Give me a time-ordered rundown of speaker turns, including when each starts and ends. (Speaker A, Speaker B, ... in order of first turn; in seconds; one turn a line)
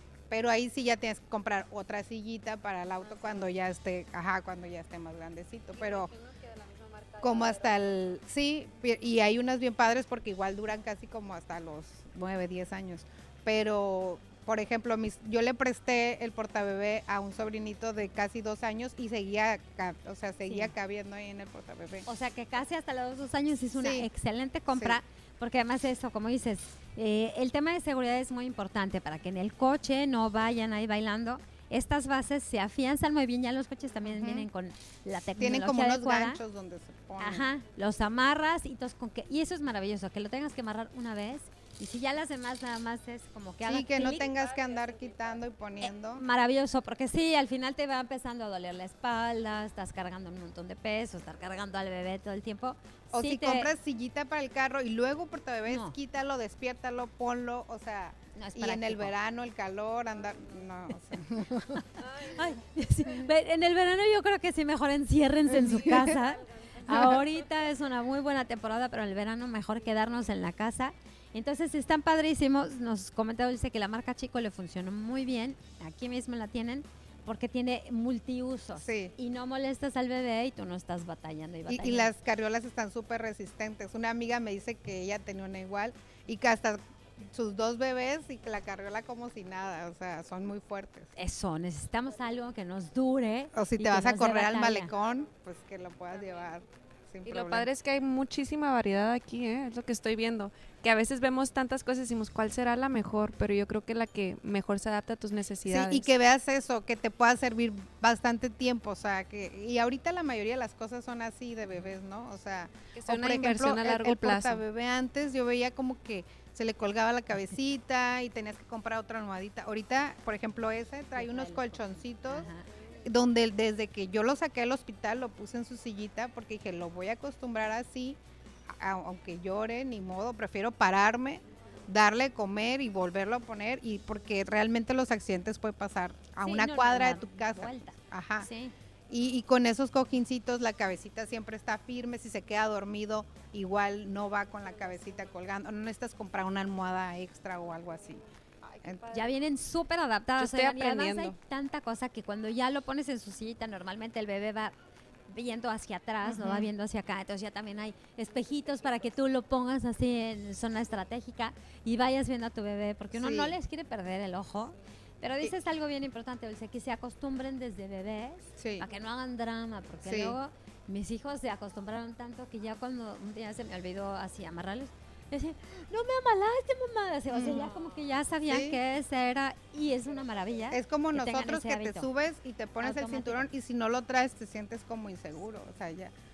Speaker A: 0.3-6.1
Speaker B: 3.0-3.5
Speaker B: 5.7-8.1
Speaker A: 7.2-22.1
Speaker C: 20.5-20.7
Speaker C: 22.1-36.4
Speaker A: 23.8-24.1
Speaker A: 24.7-25.0
Speaker A: 34.0-34.5
Speaker A: 35.4-37.5
Speaker C: 37.2-44.3
Speaker A: 43.6-46.2
Speaker B: 44.4-45.2
Speaker C: 45.9-53.7
Speaker A: 53.1-61.8
Speaker C: 55.7-56.0
Speaker C: 58.4-59.1
Speaker C: 61.6-82.1
Speaker B: 62.0-62.5
Speaker B: 65.5-67.6
Speaker A: 66.9-67.2
Speaker A: 78.8-79.1
Speaker A: 81.7-91.1
Speaker C: 91.2-94.9
Speaker A: 93.5-97.7
Speaker B: 97.2-106.1
Speaker A: 105.7-122.5
Speaker B: 112.9-114.6
Speaker C: 121.2-122.7
Speaker A: 123.0-138.5
Speaker C: 136.4-138.7
Speaker A: 139.1-148.2
Speaker B: 144.6-145.3
Speaker B: 148.6-149.4
Speaker C: 149.1-154.8
Speaker B: 150.4-151.4
Speaker C: 155.3-182.1
Speaker A: 156.2-156.7
Speaker A: 163.1-163.6
Speaker A: 168.6-168.9
Speaker A: 170.0-170.4
Speaker A: 177.3-177.7
Speaker B: 177.4-177.9
Speaker A: 178.5-178.8
Speaker A: 180.7-186.1
Speaker C: 182.8-183.5